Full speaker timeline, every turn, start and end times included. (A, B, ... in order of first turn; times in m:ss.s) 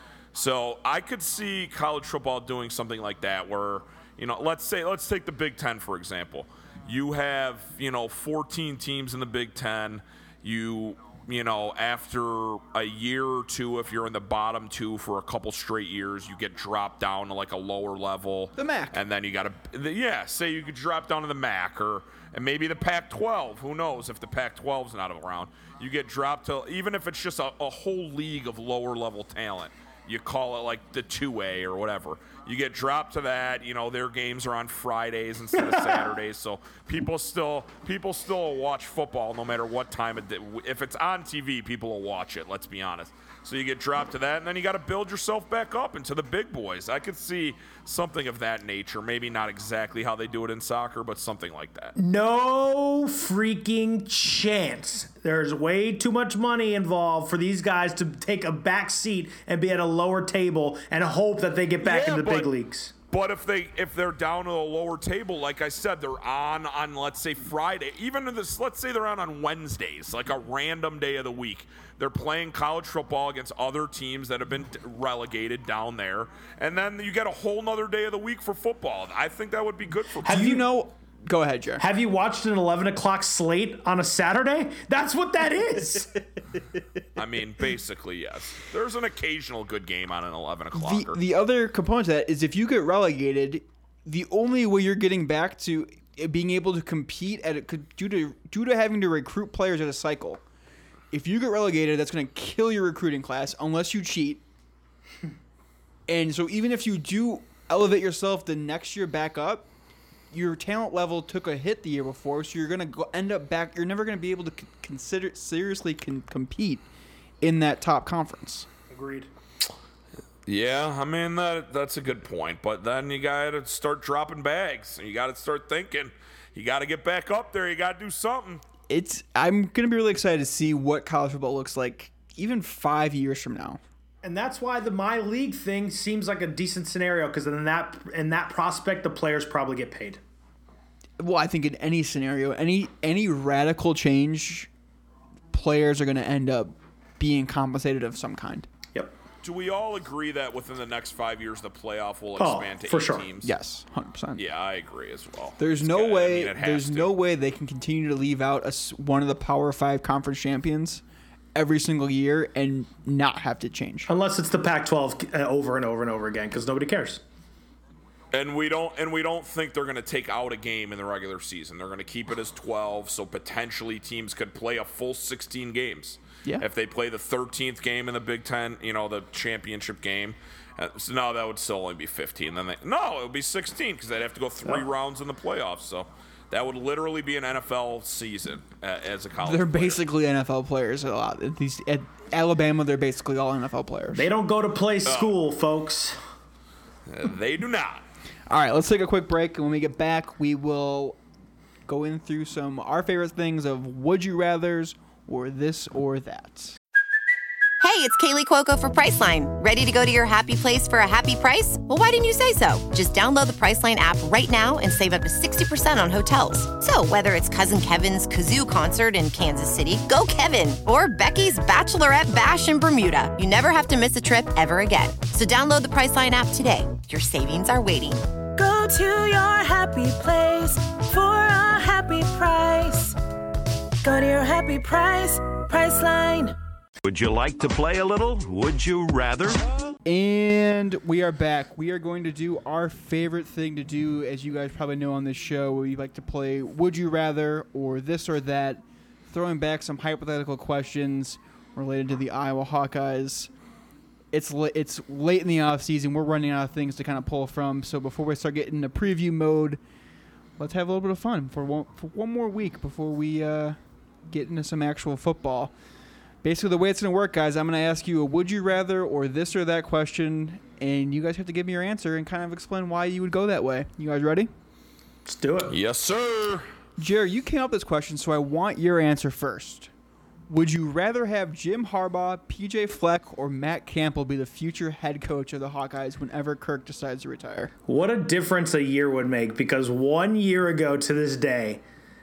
0:00.3-0:52.0 A
0:18.6-0:19.0 B
0:35.7-0:36.0 C
0:52.0-1:02.9 C
1:01.8-1:02.5 A
1:03.1-1:20.4 A
1:20.2-1:20.6 C
1:20.3-1:21.8 B
1:21.8-1:26.2 C
1:27.2-1:31.2 A
1:30.7-1:40.4 B
1:41.1-1:44.4 B
1:46.1-1:49.7 B
1:50.3-1:56.8 B
1:57.4-1:58.7 B
1:58.9-1:59.3 C
2:00.5-2:08.6 A
2:08.9-2:13.8 B
2:14.2-2:20.2 C
2:21.2-2:24.7 B
2:25.5-2:28.7 B
2:29.4-2:33.5 A
2:32.4-2:33.2 C
2:33.4-2:34.4 B
2:34.4-2:37.1 A
2:35.6-2:41.0 B
2:41.5-2:44.1 B
2:44.1-2:47.2 C
2:48.3-3:10.0 A
3:09.4-3:14.3 B
3:14.1-3:16.2 C
3:15.0-3:15.4 A
3:17.1-3:18.0 A
3:18.5-3:21.2 B
3:21.8-3:26.8 B
3:27.8-3:48.2 D
3:48.6-3:53.2 E
3:54.0-3:56.6 E
3:57.0-3:59.6 F
4:00.0-4:13.5 B
4:14.3-4:19.8 B
4:20.6-4:25.7 B
4:26.4-4:34.5 B
4:35.2-4:35.7 C
4:35.7-4:36.6 A
4:37.0-4:39.9 B
4:40.5-4:47.7 B
4:47.9-4:51.8 C